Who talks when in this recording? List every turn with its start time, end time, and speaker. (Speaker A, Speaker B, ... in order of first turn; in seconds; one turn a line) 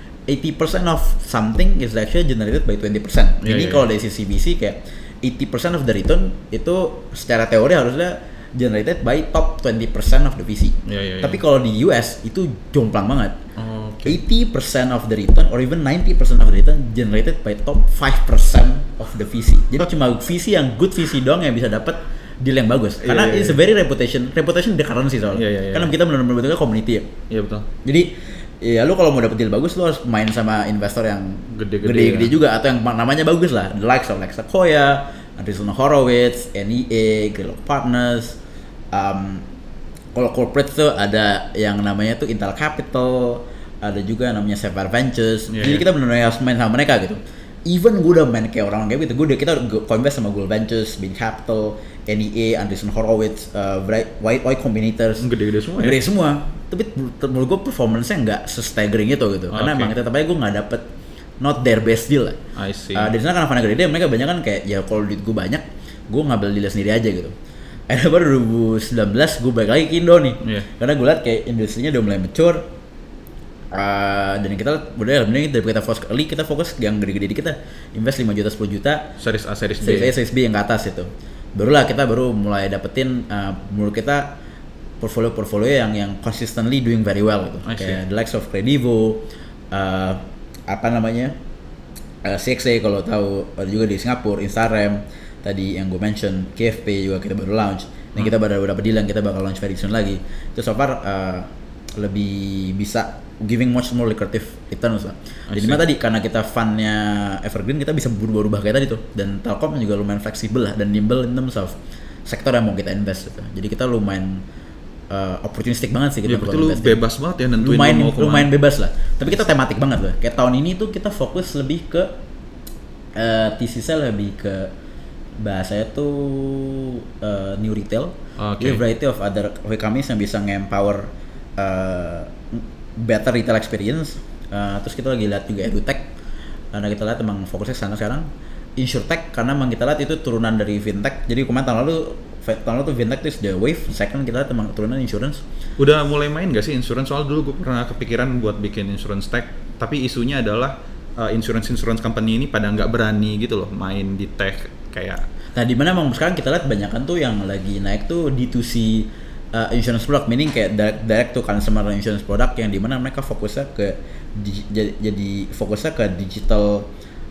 Speaker A: 0.3-13.4
Speaker B: 3.4-3.9
Speaker B: 10.8-11.4
Speaker B: 13.6-14.2
Speaker A: 14.0-27.1
Speaker B: 23.0-23.6
Speaker B: 25.3-25.9
Speaker B: 27.3-27.7
Speaker A: 27.8-38.4
Speaker B: 31.5-32.3
Speaker A: 38.9-39.4
Speaker A: 40.1-60.8
Speaker B: 45.5-45.8
Speaker B: 55.2-56.0
Speaker B: 59.5-59.9
Speaker A: 61.4-62.4
Speaker B: 62.5-63.1
Speaker A: 62.9-67.3
Speaker A: 67.9-72.7
Speaker B: 70.4-70.7
Speaker A: 73.7-79.1
Speaker B: 79.2-80.1
Speaker A: 79.8-84.4
Speaker A: 85.0-91.3
Speaker B: 87.7-88.0
Speaker A: 92.2-114.4
Speaker B: 105.5-105.8
Speaker A: 115.1-117.0
Speaker B: 116.2-118.5
Speaker A: 117.6-122.1
Speaker A: 123.2-124.7
Speaker A: 125.4-136.1
Speaker B: 128.4-128.8
Speaker A: 136.7-145.4
Speaker B: 145.8-155.2
Speaker A: 155.5-166.9